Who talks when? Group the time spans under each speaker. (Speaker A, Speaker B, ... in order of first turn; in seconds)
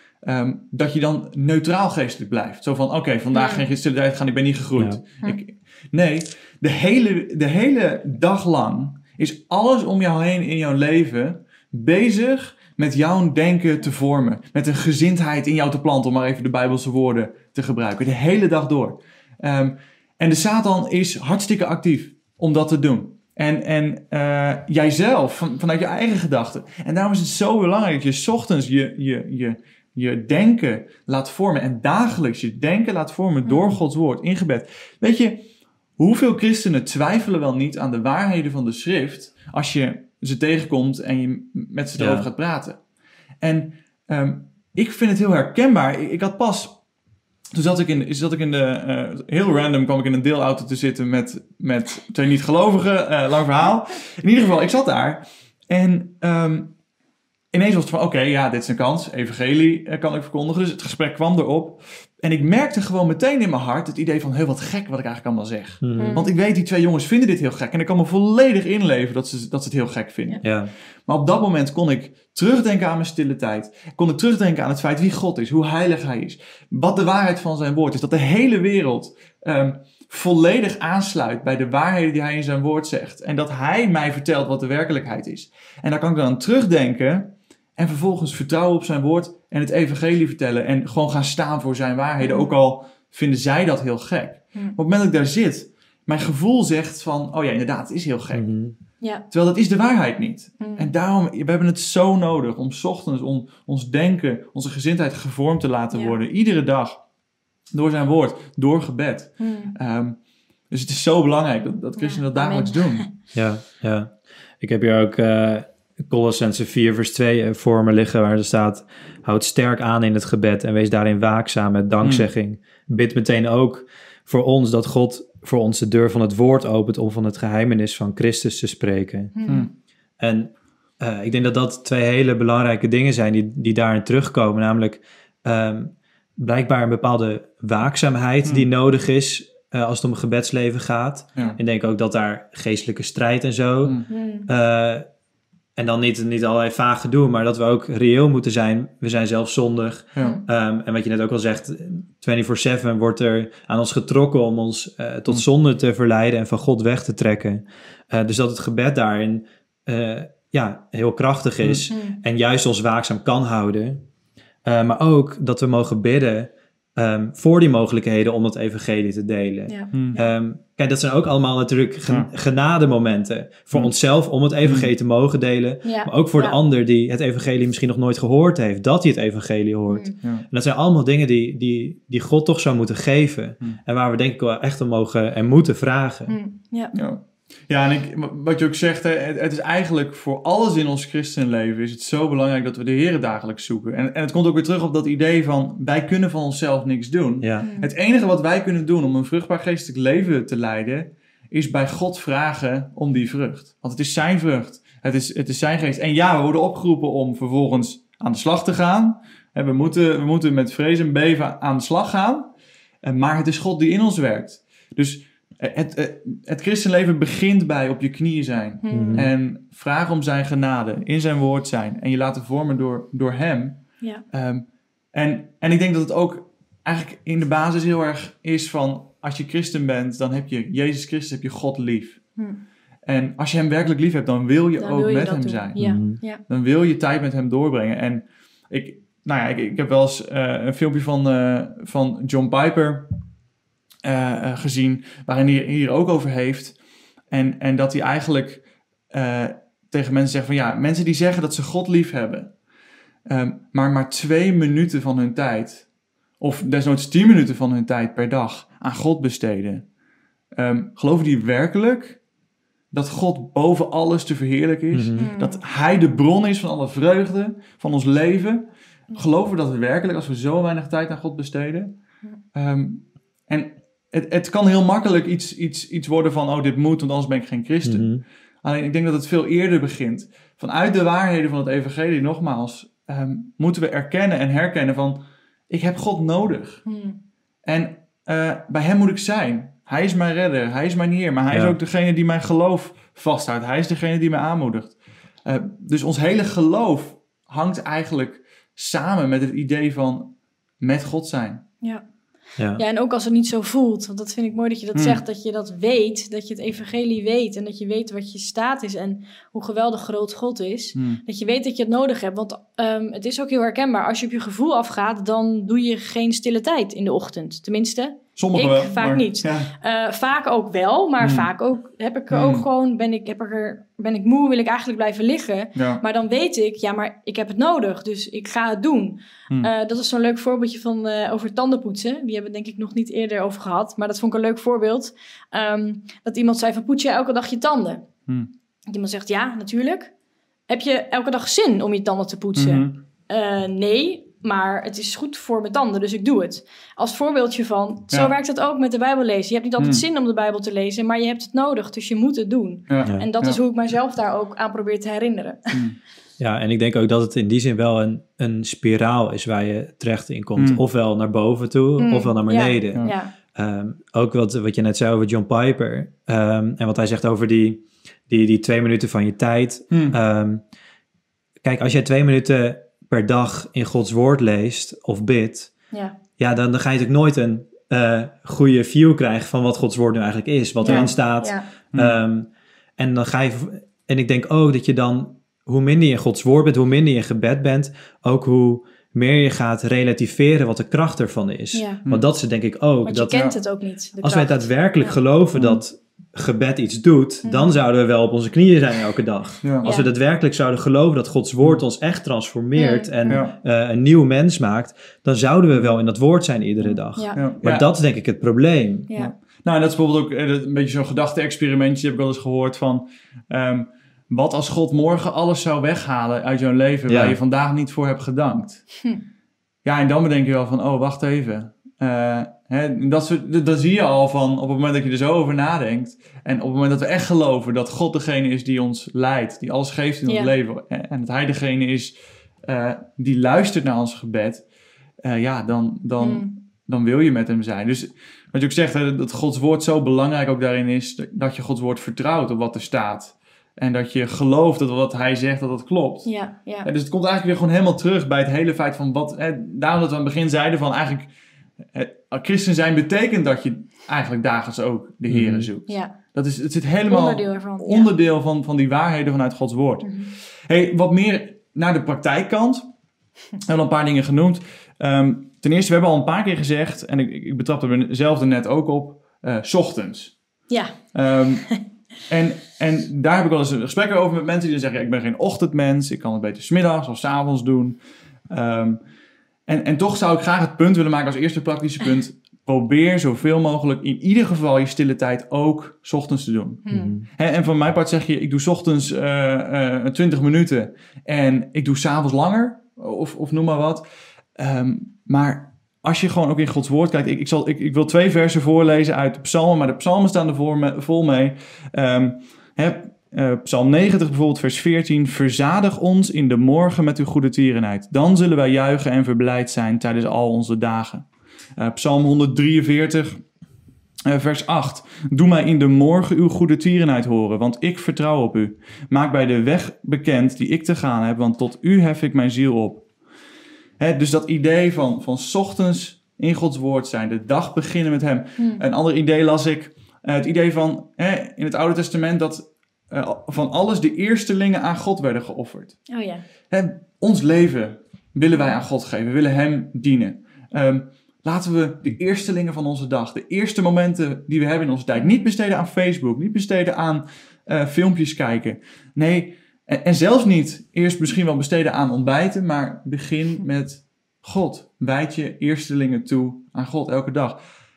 Speaker A: 0.2-35.5, 36.0-42.8, 43.4-46.8, 47.5-56.7, 57.5-70.5, 71.1-98.5, 99.3-107.0, 107.7-110.2, 110.7-113.1, 122.0-122.3, 174.6-174.9, 186.9-212.5, 213.0-232.3, 233.1-243.1, 244.0-246.8, 247.3-252.5, 253.3-255.9, 256.4-259.9, 260.6-262.2, 262.9-271.9, 272.5-286.8, 287.6-301.6, 304.9-305.2, 311.0-311.2, 318.4-319.7, 321.2-321.5, 322.3-322.7, 325.8-326.0, 342.6-343.0, 349.8-350.0, 352.9-353.6, 360.6-360.8, 369.9-370.2, 381.9-382.2, 395.6-395.8, 399.6-399.9, 403.3-403.5, 405.7-406.0, 406.8-407.9, 409.2-418.9, 419.9-434.6, 435.2-451.3, 451.9-460.1, 460.7-462.9, 463.6-470.4, 471.1-471.7, 472.3-478.0, 478.5-479.0, 479.7-494.0, 494.6-513.4, 514.3-523.1, 524.0-536.0, 536.7-557.6
Speaker B: 3.3-3.7, 33.5-33.7, 66.0-66.3, 92.2-92.6, 100.6-100.9, 105.9-106.2, 109.4-109.7, 112.0-113.1, 129.4-129.7, 144.1-144.5, 161.9-162.2, 169.7-170.3, 175.8-176.6, 179.9-180.1, 186.3-186.9, 197.6-197.9, 218.8-219.3, 234.8-236.4, 265.2-265.6, 286.9-287.2, 302.8-338.1, 338.9-340.1, 340.7-355.8, 362.0-363.3, 380.8-381.7, 391.7-392.0, 393.1-395.2, 397.4-397.8, 399.8-400.1, 402.8-403.4, 430.3-430.5, 436.2-436.5, 446.2-446.9, 455.9-456.1, 457.1-458.1, 460.0-460.3, 470.7-471.0, 486.9-487.1, 528.6-528.8, 536.1-536.4
Speaker C: 42.0-42.3, 65.8-66.2, 70.4-70.7, 98.3-98.8, 113.3-129.4, 130.2-145.1, 145.8-164.0, 164.6-186.4, 197.4-197.7, 218.9-219.3, 235.8-236.2, 264.9-265.3, 277.8-278.2, 291.5-291.8, 302.6-302.8, 356.4-370.6, 371.6-375.7, 376.4-393.5, 394.2-409.1, 417.1-417.4, 455.3-455.7, 486.9-487.3